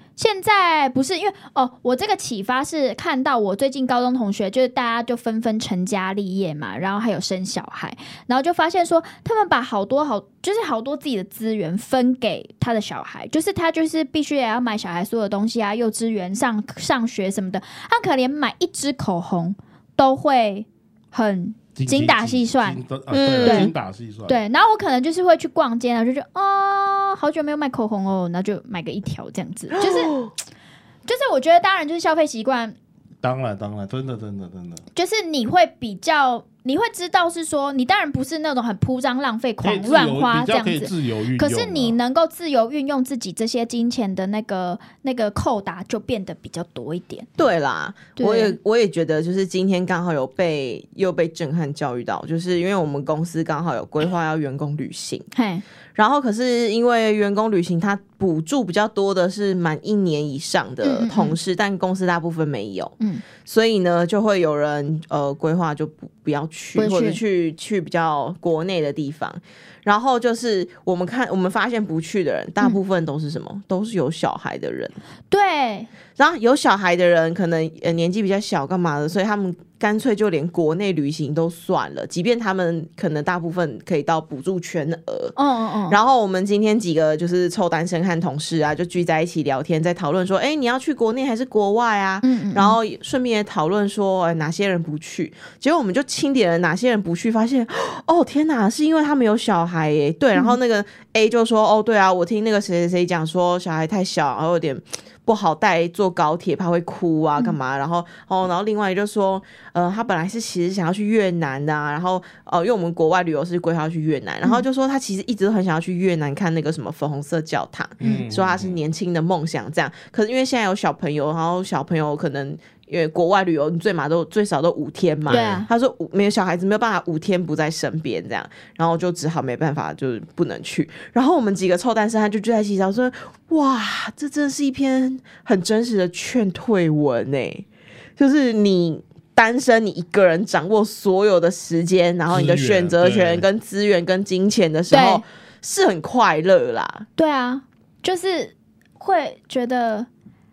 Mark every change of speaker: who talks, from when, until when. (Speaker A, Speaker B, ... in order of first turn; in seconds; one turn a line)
Speaker A: 0.2-22.8
Speaker B: 21.8-24.4
Speaker C: 23.1-23.7
Speaker A: 23.4-23.7
Speaker A: 24.3-30.2
Speaker C: 29.7-30.3
Speaker A: 31.1-32.8
Speaker B: 33.2-34.8
Speaker A: 35.0-47.3
Speaker B: 39.6-42.0
Speaker C: 47.4-55.3
Speaker A: 48.2-48.6
Speaker A: 55.3-55.6
Speaker C: 56.0-75.0
Speaker A: 60.8-61.4
Speaker A: 66.8-67.2
Speaker A: 75.3-75.9
Speaker C: 76.2-85.4
Speaker A: 85.4-86.0
Speaker C: 85.9-137.7
Speaker A: 92.2-92.8
Speaker B: 118.0-118.8
Speaker A: 118.0-118.3
Speaker B: 125.3-125.6
Speaker A: 125.3-125.7
Speaker C: 138.2-147.1
Speaker B: 142.3-143.5
Speaker A: 144.9-145.2
Speaker A: 147.2-150.1